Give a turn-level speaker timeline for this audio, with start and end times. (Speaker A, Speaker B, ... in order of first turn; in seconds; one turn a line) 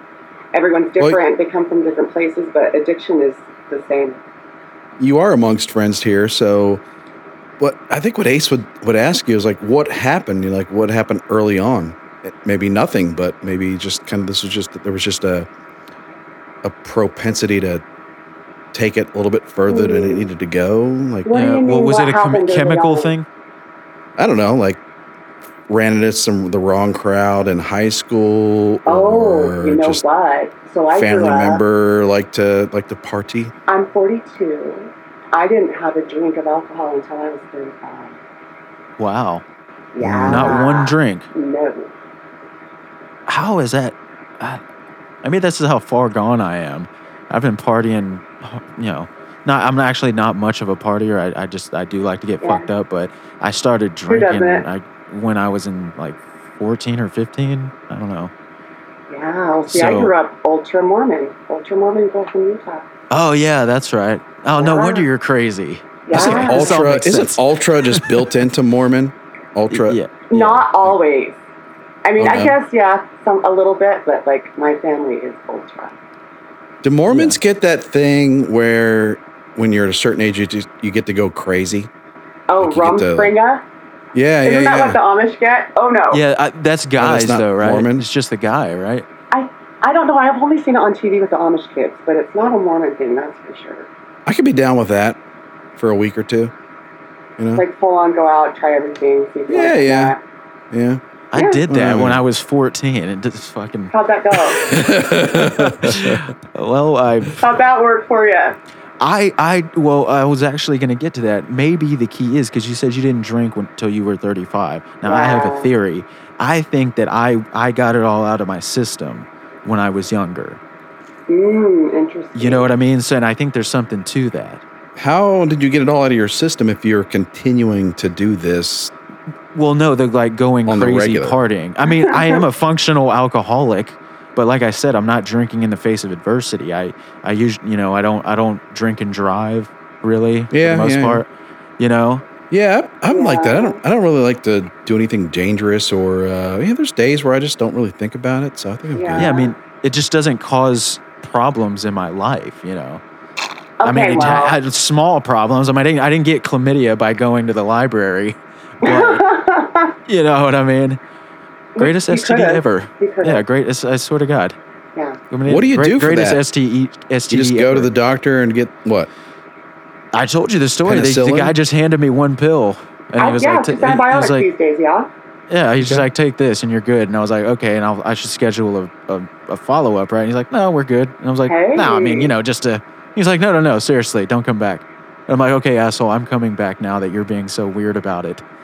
Speaker A: 0.5-4.2
Speaker B: 5.0-6.8
Speaker B: 7.6-15.5
Speaker B: 16.6-17.8
Speaker B: 18.7-21.3
Speaker A: 19.7-20.3
Speaker A: 21.3-23.1
Speaker C: 21.3-23.3
Speaker B: 24.2-24.8
Speaker B: 25.7-30.0
Speaker A: 28.9-31.6
Speaker B: 30.9-33.5
Speaker A: 33.7-38.2
Speaker C: 39.0-39.4
Speaker A: 39.9-41.9
Speaker B: 40.0-40.6
Speaker C: 40.3-41.3
Speaker C: 43.3-44.6
Speaker C: 45.2-58.3
Speaker A: 52.4-52.7
Speaker A: 54.1-54.6
Speaker A: 59.1-62.9
Speaker C: 59.7-60.1
Speaker C: 63.1-68.2
Speaker A: 64.6-65.0
Speaker A: 66.1-66.8
Speaker B: 66.1-70.0
Speaker C: 69.7-70.7
Speaker A: 70.3-71.4
Speaker A: 72.0-75.9
Speaker B: 72.2-72.5
Speaker B: 76.8-81.9
Speaker C: 77.1-77.4
Speaker A: 82.5-83.6
Speaker B: 82.6-83.3
Speaker B: 84.1-85.0
Speaker A: 84.5-86.2
Speaker C: 86.1-89.1
Speaker B: 87.0-88.0
Speaker A: 89.3-93.9
Speaker B: 94.3-95.2
Speaker B: 95.8-96.5
Speaker B: 97.4-97.6
Speaker A: 97.5-100.2
Speaker B: 99.5-100.1
Speaker B: 100.7-101.0
Speaker C: 101.3-103.9
Speaker A: 101.3-101.6
Speaker B: 101.7-102.2
Speaker A: 103.9-104.7
Speaker B: 104.5-106.2
Speaker C: 105.5-107.4
Speaker A: 107.4-108.6
Speaker C: 109.0-120.6
Speaker A: 115.0-115.7
Speaker A: 121.3-122.7
Speaker C: 122.3-124.6
Speaker B: 125.0-128.9
Speaker C: 129.5-141.3
Speaker B: 130.7-131.4
Speaker A: 131.8-132.4
Speaker B: 140.5-141.2
Speaker C: 141.8-142.2
Speaker B: 142.5-149.4
Speaker A: 143.1-143.8
Speaker A: 148.9-149.5
Speaker C: 149.2-153.0
Speaker A: 153.8-154.6
Speaker C: 153.8-159.2
Speaker A: 158.8-159.9
Speaker C: 160.1-161.0
Speaker A: 161.8-163.4
Speaker C: 161.8-164.6
Speaker C: 165.3-167.9
Speaker B: 165.5-166.4
Speaker B: 167.3-169.1
Speaker C: 170.1-174.5
Speaker B: 170.8-171.5
Speaker A: 173.2-175.1
Speaker C: 175.5-188.4
Speaker B: 175.8-176.1
Speaker A: 181.5-182.3